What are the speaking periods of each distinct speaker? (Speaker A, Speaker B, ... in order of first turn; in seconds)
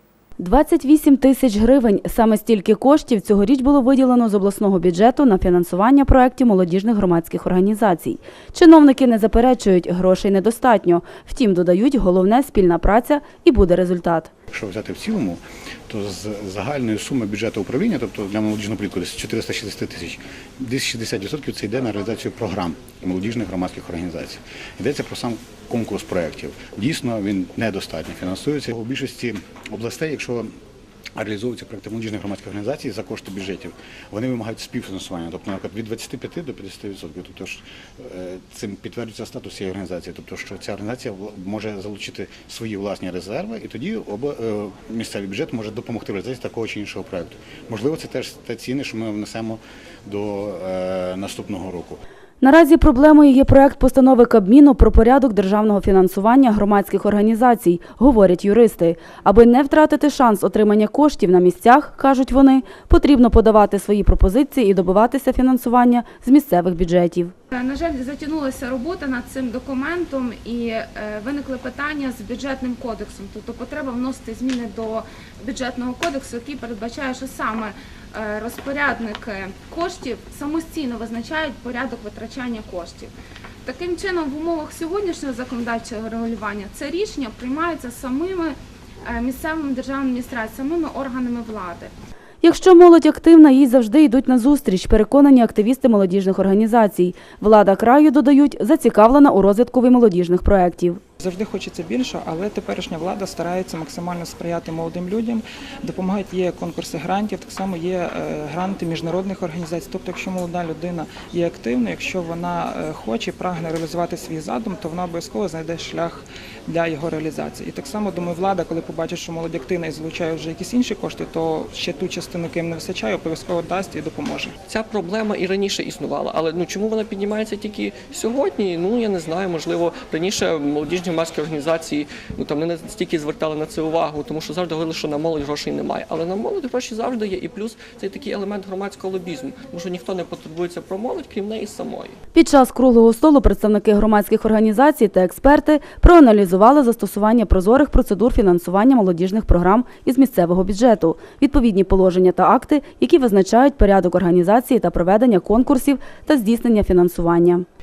Speaker A: 0.4-14.3, 52.4-67.3, 92.4-101.0, 142.3-157.7
Speaker B: 14.5-30.5, 31.2-52.0
Speaker C: 67.5-83.1, 83.6-91.9
Speaker D: 101.2-124.5
Speaker E: 124.7-142.2